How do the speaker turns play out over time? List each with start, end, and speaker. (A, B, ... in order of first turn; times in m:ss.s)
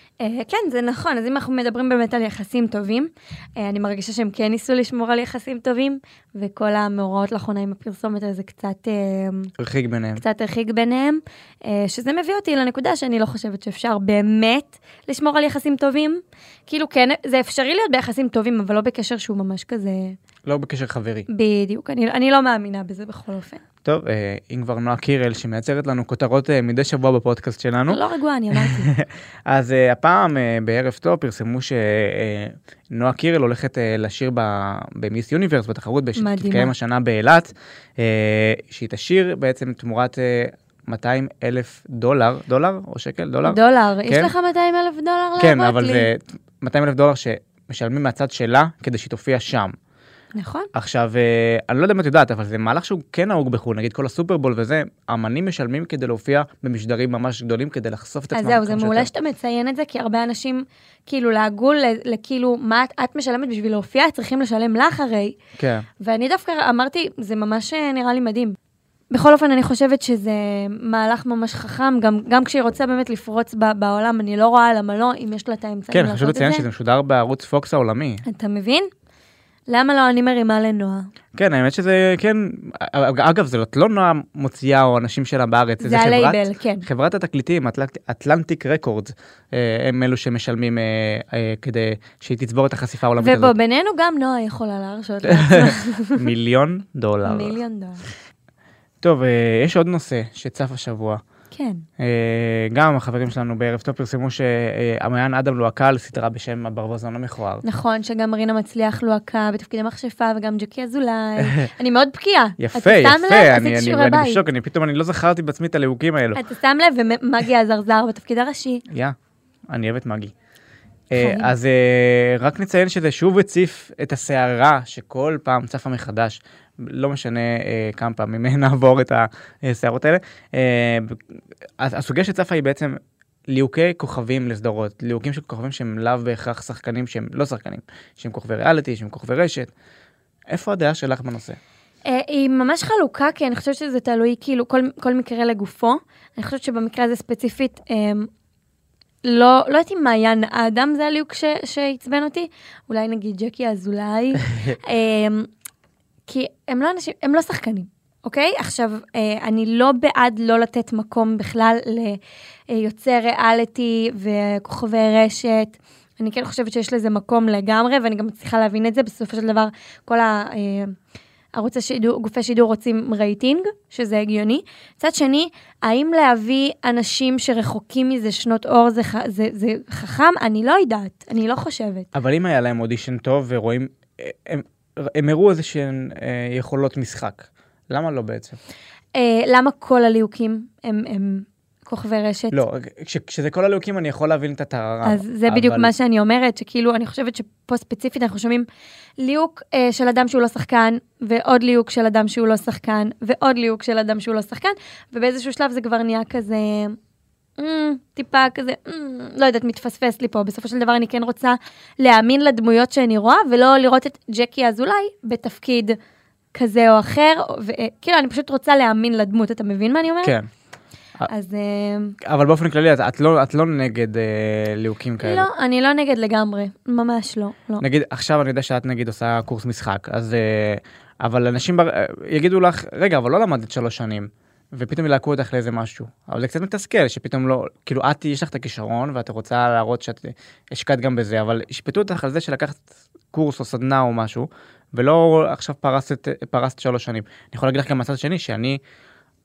0:00.2-0:09.5 A
0:09.6-0:10.2 B
0:10.2-0:20.2 A
0:20.4-0:21.3 B
0:21.3-0:23.6 A
0:23.8-0:28.0 B
0:27.9-0:28.9 A
0:28.8-0:44.3 B
0:36.2-0:36.7 A
0:43.4-0:46.1 A
0:45.4-0:49.7 B
0:50.3-0:50.7 A
0:50.7-0:59.1 B
0:58.3-1:05.4 A
1:05.6-1:05.9 B
1:06.0-1:08.5 A
1:09.1-1:16.6 A
1:15.9-1:18.2 B
1:18.2-1:18.9 A
1:19.7-1:21.0 A
1:21.3-1:33.5 B
1:25.8-1:26.9 A
1:33.2-1:36.3 A
1:35.2-1:37.6 B
1:37.2-1:38.0 A
1:39.0-1:41.2 B
1:41.5-1:41.8 A
1:42.0-1:47.6 B
1:47.6-1:54.4 A
1:51.4-1:51.7 B
1:52.6-1:56.4 B
1:56.4-1:58.8 A
1:58.9-1:59.1 B
1:59.7-2:00.3 B
2:01.1-2:13.0 B
2:01.1-2:01.5 A
2:13.5-2:19.7 B
2:20.5-2:21.6 B
2:22.0-2:28.3 A
2:29.2-2:35.5 A
2:36.3-2:50.9 A
2:51.5-3:02.1 A
3:02.1-3:08.6 B
3:09.1-3:12.6 A
3:12.5-3:15.9 B
3:15.0-3:18.6 A
3:19.2-3:27.0 A
3:27.6-3:35.9 A
3:36.5-3:40.4 A
3:41.3-3:42.1 A
3:42.2-3:45.5 B
3:45.2-3:47.8 A
3:47.8-4:08.8 B